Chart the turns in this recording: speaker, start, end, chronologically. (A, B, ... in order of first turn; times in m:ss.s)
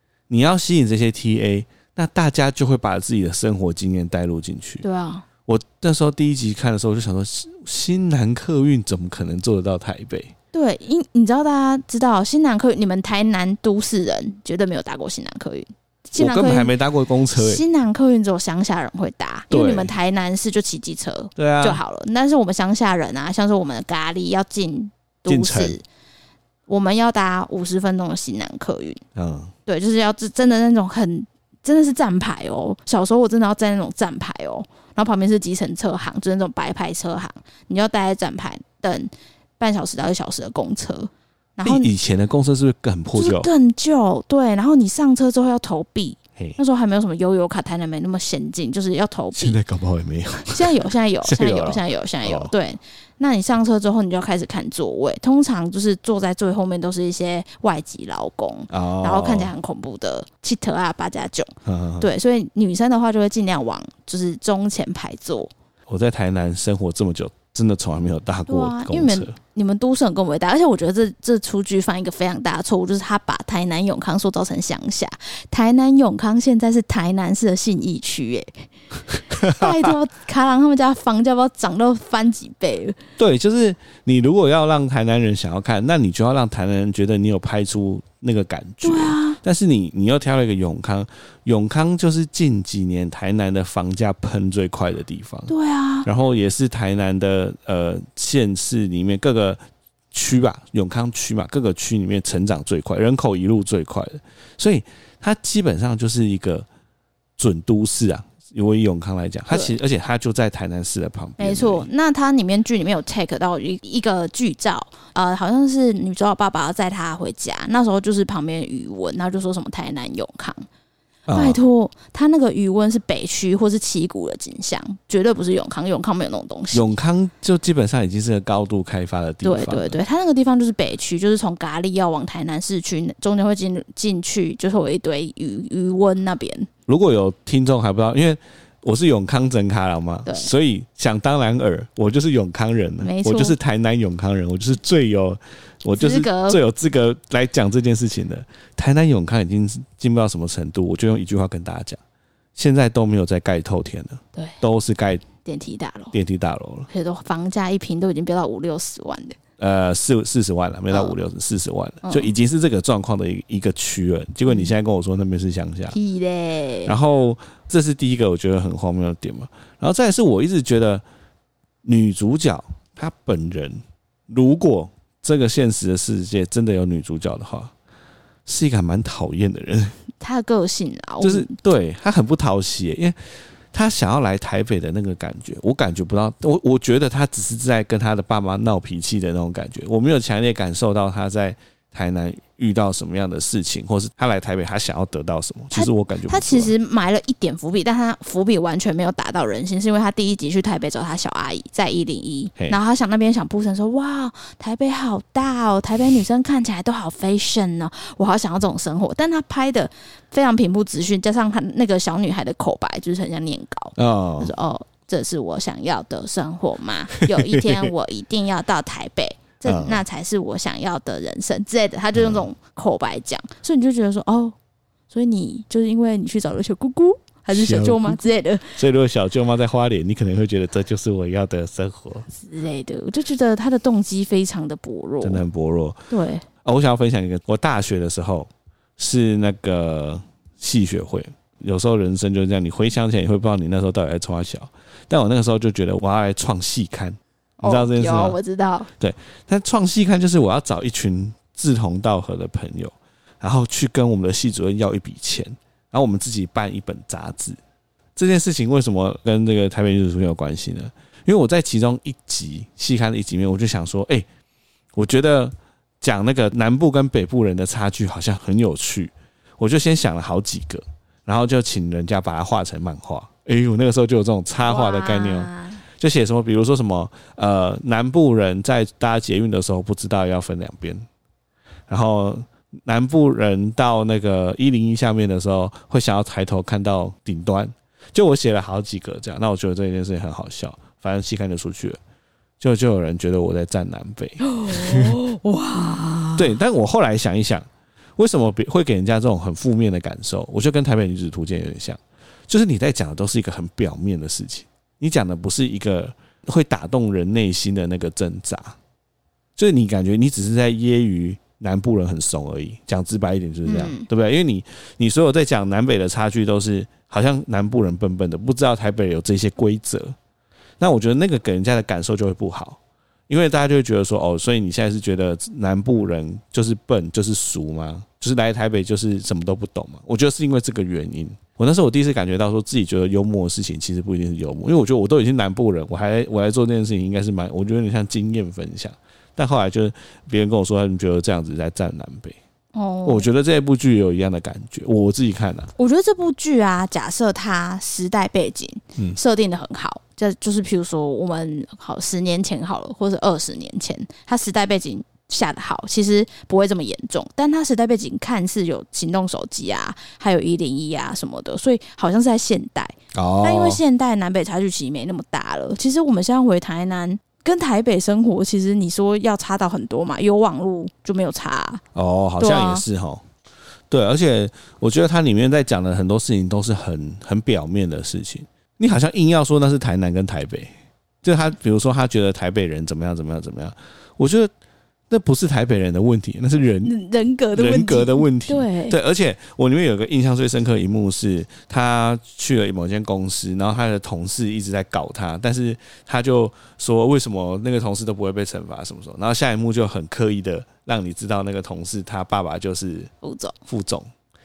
0:00.3-0:04.8 A
0:04.8-0:05.2 B
0:05.5-0:10.3 A
0:10.5-0:16.7 B
0:16.2-0:17.6 A
0:17.3-0:25.8 B
0:19.5-0:19.9 A
0:21.4-0:21.8 A
0:25.3-0:25.8 A
0:26.7-0:29.0 B
0:29.2-0:29.5 A
0:29.6-0:41.9 B
0:41.6-0:43.5 A
0:43.1-0:49.6 B
0:49.4-0:50.7 A
0:50.5-1:05.5 B
0:51.2-0:52.5 A
0:58.7-0:59.5 A
1:01.6-1:02.1 A
1:05.9-1:09.3 A
1:08.5-1:18.7 B
1:19.3-1:19.9 A
1:19.3-1:23.0 B
1:23.2-1:35.5 A
1:28.8-1:29.4 B
1:35.5-1:36.1 B
1:36.0-1:39.6 A
1:40.1-1:46.7 A
1:47.4-1:51.9 A
1:49.5-1:49.8 B
1:51.4-2:00.6 B
2:01.3-2:01.6 A
2:01.3-2:06.9 B
2:06.7-2:10.0 A
2:09.4-2:16.7 B
2:16.9-2:32.0 A
2:20.2-2:20.5 B
2:23.0-2:23.6 B
2:26.0-2:26.6 B
2:32.6-2:35.2 A
2:35.4-2:36.1 B
2:36.1-2:36.9 A
2:36.9-2:39.4 B
2:39.6-2:46.0 A
2:42.0-2:42.3 B
2:44.5-2:44.7 B
2:45.9-2:46.9 B
2:46.8-2:51.0 A
2:51.8-2:57.7 A
2:58.4-3:00.0 A
3:00.2-3:01.5 B
3:01.2-3:16.7 A
3:15.7-3:44.5 B
3:34.0-3:34.5 A
3:37.3-3:37.9 A
3:39.6-3:40.0 A
3:42.1-3:42.4 A
3:45.1-3:48.8 B
3:47.5-3:52.3 A
3:52.3-3:55.4 B
3:55.2-3:56.0 A
3:56.1-3:56.4 B
3:56.6-4:08.4 A
4:07.6-4:08.9 B
4:09.0-4:17.6 A
4:18.2-4:24.2 A
4:24.9-4:41.0 A
4:34.6-4:35.8 B
4:41.9-4:52.0 A
4:52.6-4:55.2 A
4:54.4-4:56.6 B
4:56.4-5:08.8 A
5:09.6-5:20.2 A
5:13.6-5:14.1 B
5:20.8-5:42.4 A
5:42.7-5:43.3 B
5:43.0-5:45.7 A
5:45.8-6:11.8 B
6:03.1-6:03.8 A
6:11.9-6:13.2 A
6:12.4-6:12.8 B
6:13.9-6:20.7 A
6:21.2-6:24.5 A
6:25.1-6:26.9 A
6:26.8-6:29.0 B
6:27.5-6:43.1 A
6:43.2-6:43.6 B
6:43.6-6:44.1 A